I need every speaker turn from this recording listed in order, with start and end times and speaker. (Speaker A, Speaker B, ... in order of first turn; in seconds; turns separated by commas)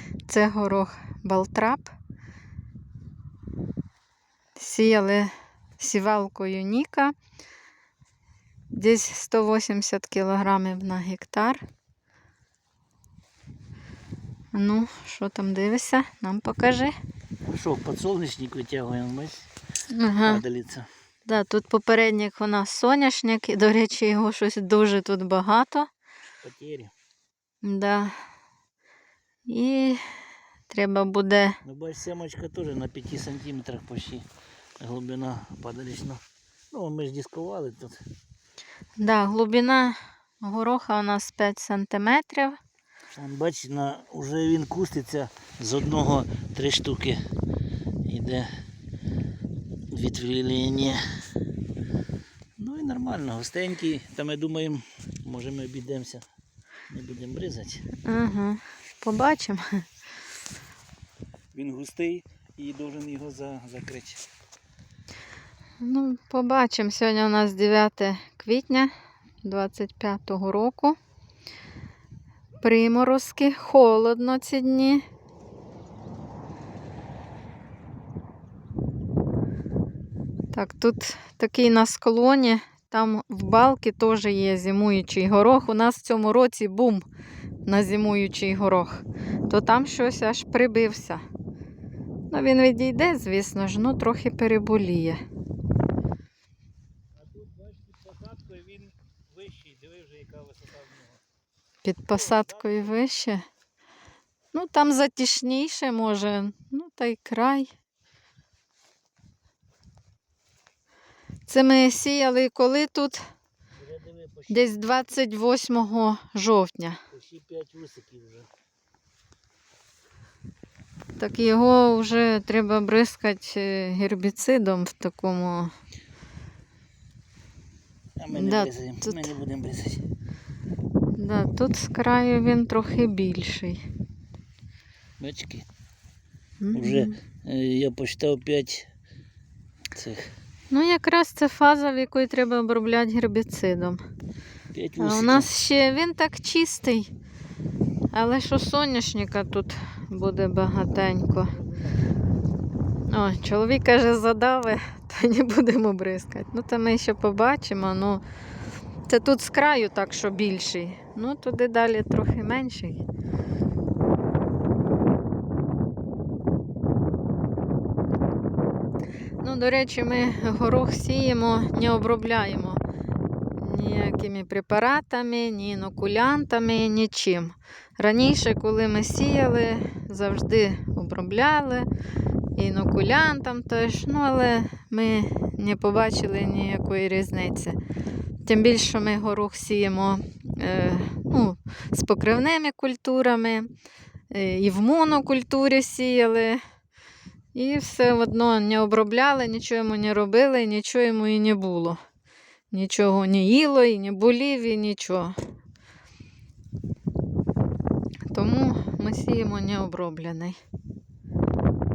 Speaker A: 0.3-1.9, Speaker A: 4.5-7.1, Speaker A: 8.7-11.6, Speaker A: 14.5-16.9, Speaker B: 17.4-19.5, Speaker A: 19.9-20.4, Speaker B: 20.2-20.9, Speaker A: 21.2-25.9, Speaker B: 26.4-26.9, Speaker A: 27.6-28.2, Speaker A: 29.4-30.0, Speaker A: 30.7-31.6, Speaker B: 31.6-34.2, Speaker B: 34.8-38.0, Speaker A: 39.0-42.6, Speaker B: 43.1-47.2, Speaker B: 48.0-48.5, Speaker B: 49.9-51.0, Speaker B: 52.6-56.2, Speaker B: 56.9-57.9, Speaker A: 58.0-59.9, Speaker B: 61.5-64.2, Speaker A: 65.8-71.0, Speaker A: 72.6-75.0, Speaker A: 80.5-87.0, Speaker A: 87.7-91.2, Speaker A: 92.3-95.2, Speaker B: 97.2-101.2, Speaker A: 101.8-103.4, Speaker B: 102.1-102.9, Speaker A: 104.5-107.7, Speaker A: 111.5-113.2, Speaker B: 113.8-114.7, Speaker A: 114.5-117.0, Speaker B: 117.1-118.5, Speaker A: 121.2-125.7, Speaker B: 128.2-130.0, Speaker A: 128.3-129.3, Speaker A: 131.1-133.8, Speaker B: 135.2-135.7, Speaker A: 136.6-137.2, Speaker B: 136.7-138.9, Speaker B: 139.9-140.3, Speaker A: 140.7-144.0, Speaker B: 144.7-145.5, Speaker A: 145.0-147.1, Speaker A: 148.1-151.6, Speaker A: 153.1-158.2, Speaker A: 159.1-163.0, Speaker A: 169.4-172.8, Speaker A: 173.5-181.9, Speaker A: 182.6-187.8, Speaker A: 188.4-193.7, Speaker A: 194.3-196.6, Speaker A: 197.5-202.0, Speaker A: 202.7-205.3, Speaker A: 208.3-210.6